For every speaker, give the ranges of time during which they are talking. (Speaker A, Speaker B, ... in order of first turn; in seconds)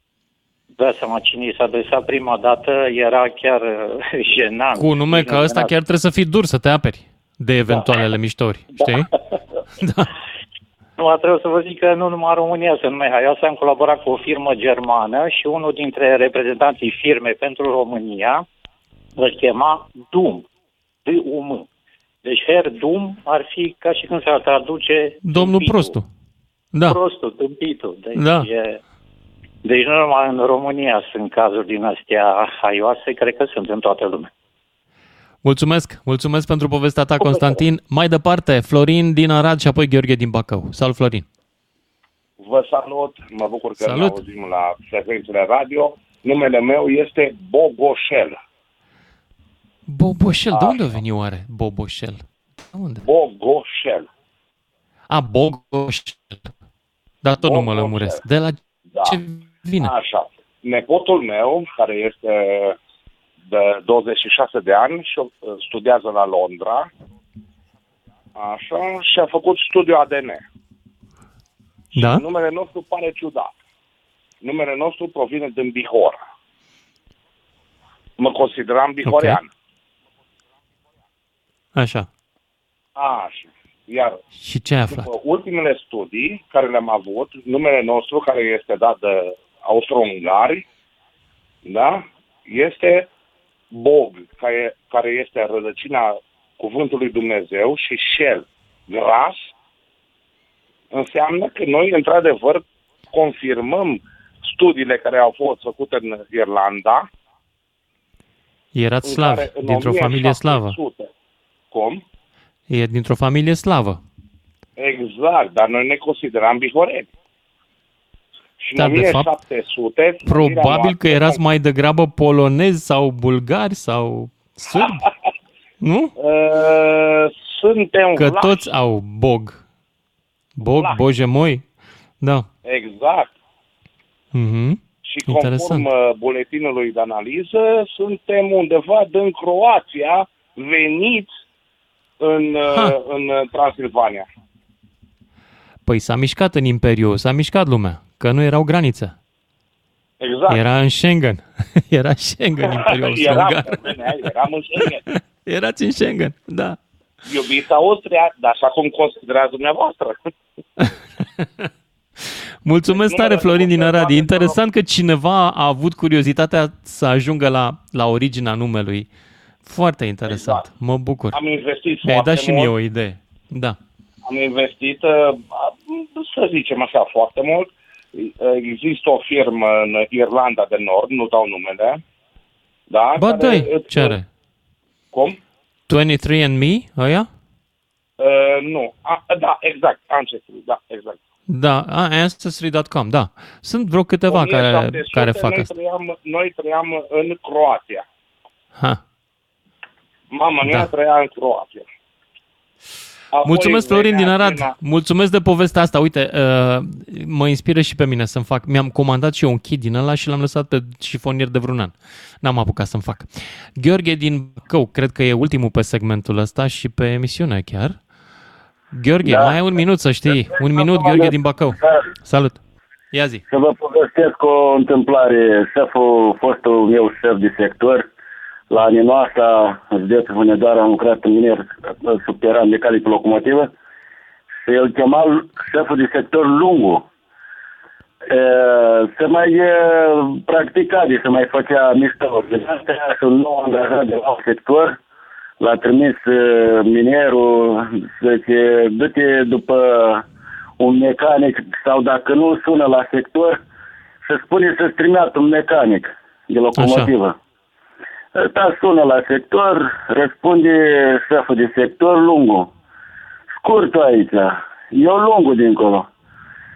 Speaker A: 0.8-5.7, 11.0-18.4, 19.2-20.4, 21.1-21.6, 22.2-25.9, 26.9-28.8, 29.6-34.3
Speaker B: 4.7-9.1, 9.8-10.1, 25.2-26.0, 28.1-28.5, 35.4-41.2, 43.8-44.2, 49.9-53.0, 55.1-56.5, 57.2-59.9, 72.0-72.2, 79.0-79.4, 81.8-82.1, 84.4-85.1, 108.7-110.8, 112.7-114.0, 118.8-119.3, 120.2-125.0, 125.8-126.1, 128.2-129.6, 130.6-131.6, 132.2-132.5, 134.3-135.8, 145.8-149.2, 150.5-153.9, 155.4-156.8, 160.8-161.7, 162.6-169.1, 169.6-171.4, 172.0-173.8, 183.2-184.2, 185.9-187.3, 191.5-195.7, 203.4-218.0, 218.9-222.6, 223.1-223.4, 256.8-257.1
Speaker C: 42.4-48.4, 50.5-50.9, 53.0-54.0, 57.4-58.2, 59.8-62.8, 63.5-66.9, 68.4-70.4, 72.0-73.5, 74.4-76.2, 78.2-79.5, 83.0-84.2, 84.9-90.6, 91.7-93.1, 93.7-99.5, 100.9-107.0, 109.0-111.1, 111.7-112.0, 114.8-117.1, 118.6-121.4, 126.2-128.7, 132.7-133.3, 135.1-141.3, 142.2-144.2, 150.2-150.6, 152.6-155.0, 157.2-160.3, 162.9-164.6, 170.3-170.7, 171.3-172.7, 174.3-182.0, 182.9-184.2, 188.2-191.2, 194.3-198.0, 200.3-201.8, 203.3-204.7
Speaker D: 220.6-221.3, 223.5-228.0, 228.7-233.7, 234.7-237.0, 238.3-244.9, 245.6-250.2, 250.8-253.6, 254.3-257.3, 258.4-262.7, 263.6-266.0